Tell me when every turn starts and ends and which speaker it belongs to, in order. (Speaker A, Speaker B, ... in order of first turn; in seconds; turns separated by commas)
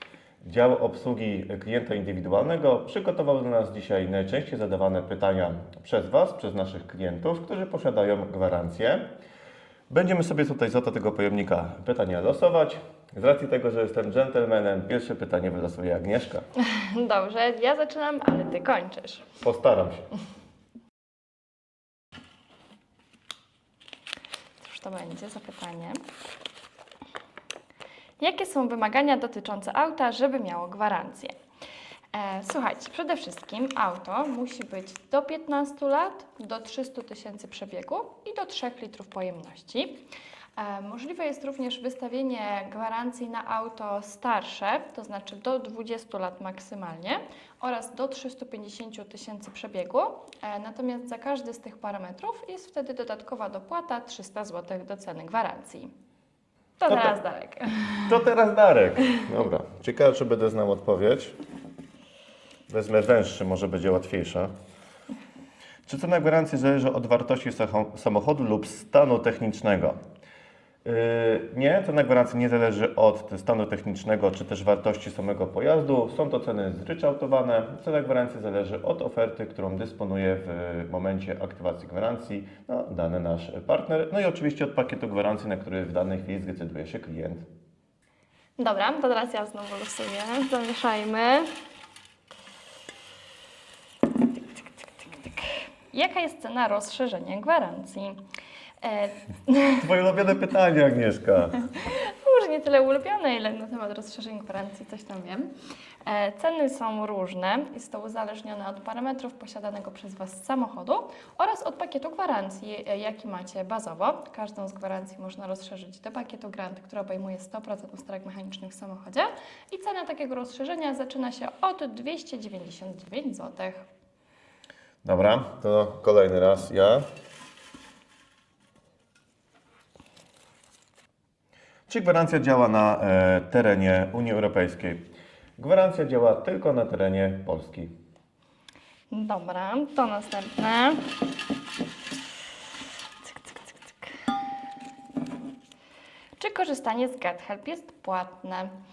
Speaker A: 0.4-9.1, Speaker A: 9.9-16.4, Speaker B: 16.6-19.3, Speaker A: 19.4-20.1, Speaker B: 24.6-26.0, Speaker B: 28.2-31.3, Speaker B: 32.1-40.0, Speaker B: 40.5-55.9, Speaker B: 56.8-58.1, Speaker A: 56.9-57.1, Speaker A: 58.0-61.4, Speaker A: 62.7-64.5, Speaker A: 65.9-70.0, Speaker A: 70.8-87.5, Speaker B: 88.6-91.5, Speaker B: 95.0-98.2, Speaker B: 98.8-99.9, Speaker A: 99.8-101.7, Speaker B: 101.6-105.5, Speaker B: 106.0-123.8, Speaker A: 125.0-127.0, Speaker A: 131.9-135.0, Speaker A: 135.6-137.9, Speaker B: 139.1-141.1, Speaker B: 143.3-143.9, Speaker B: 146.4-148.7